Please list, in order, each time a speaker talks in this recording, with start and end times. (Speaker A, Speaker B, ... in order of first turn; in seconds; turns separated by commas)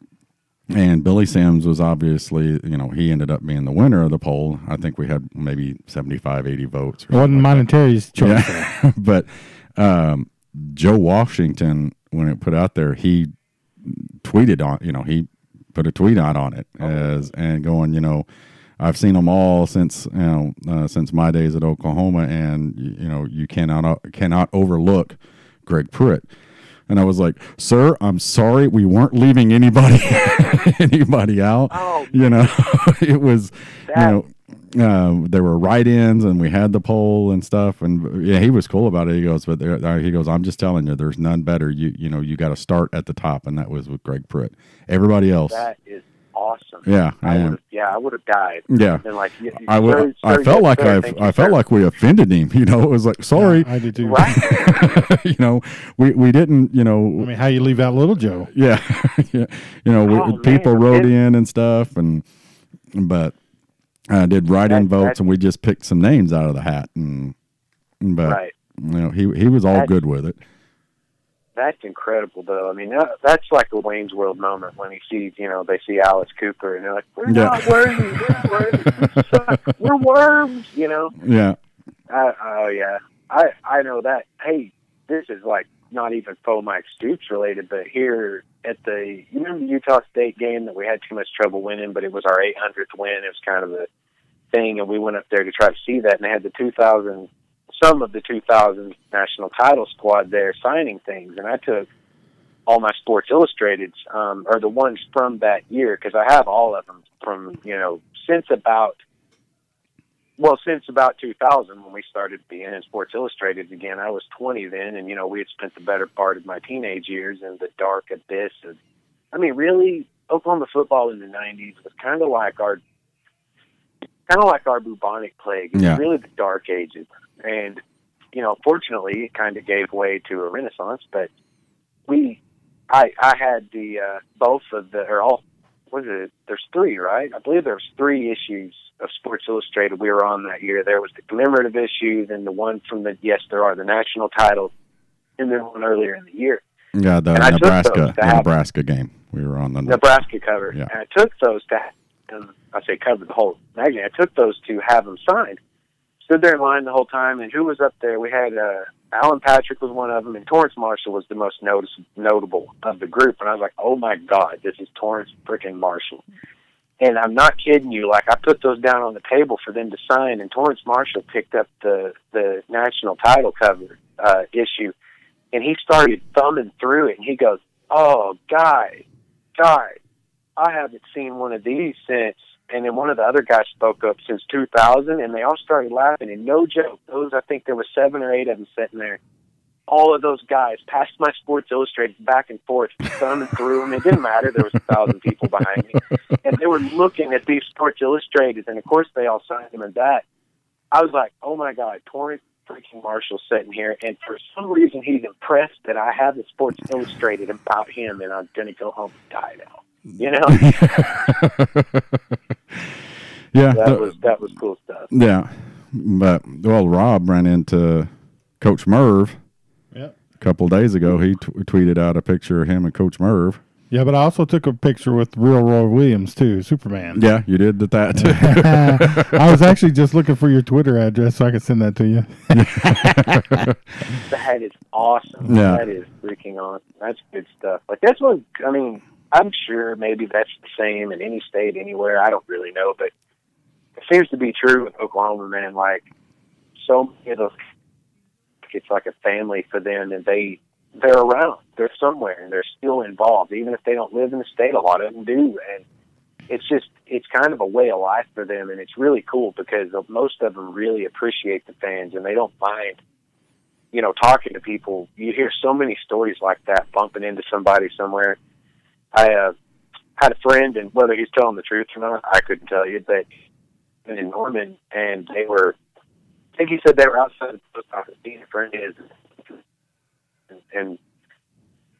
Speaker A: 0.7-7.7, Speaker B: 7.1-8.7, Speaker A: 8.2-13.3, Speaker A: 13.8-18.3, Speaker C: 16.9-17.2, Speaker A: 18.8-26.3, Speaker A: 26.9-45.6, Speaker C: 31.7-32.3, Speaker C: 33.9-34.2, Speaker C: 45.5-51.6, Speaker A: 46.9-47.6, Speaker A: 48.7-49.0, Speaker A: 49.6-53.7, Speaker B: 53.4-54.4, Speaker C: 54.0-54.9, Speaker A: 54.2-57.3, Speaker B: 57.2-58.5, Speaker A: 58.5-62.2, Speaker C: 60.0-61.1, Speaker A: 62.9-63.4, Speaker A: 64.1-67.3, Speaker C: 64.7-65.2, Speaker A: 68.0-70.4, Speaker C: 68.2-68.5, Speaker C: 71.6-81.1, Speaker A: 77.3-79.5, Speaker A: 81.2-81.6, Speaker C: 82.1-93.9, Speaker C: 94.5-101.9, Speaker C: 102.7-109.0, Speaker C: 110.4-118.8, Speaker C: 119.3-122.8, Speaker C: 124.3-127.8, Speaker A: 125.8-126.0, Speaker C: 128.3-131.3, Speaker C: 132.1-144.7, Speaker C: 145.4-146.6, Speaker A: 146.9-150.0, Speaker C: 147.3-148.5, Speaker C: 149.9-155.6, Speaker C: 156.3-166.2, Speaker C: 167.0-174.9, Speaker C: 175.5-179.0, Speaker C: 179.6-180.0, Speaker C: 180.6-189.2, Speaker C: 189.9-200.2, Speaker C: 200.9-210.6, Speaker A: 210.5-212.9, Speaker A: 213.5-214.2, Speaker C: 213.7-215.1, Speaker A: 215.1-219.4, Speaker A: 220.4-223.6, Speaker B: 223.9-227.2, Speaker A: 227.1-229.4, Speaker B: 228.2-233.4, Speaker A: 232.5-233.7, Speaker C: 234.3-243.1, Speaker A: 235.5-235.9, Speaker C: 244.0-246.1, Speaker C: 246.8-247.6, Speaker C: 248.7-255.8, Speaker C: 256.5-263.0, Speaker C: 263.9-268.4, Speaker C: 269.1-269.5, Speaker C: 270.2-273.2, Speaker C: 274.1-275.8, Speaker C: 276.6-279.0, Speaker C: 280.7-281.0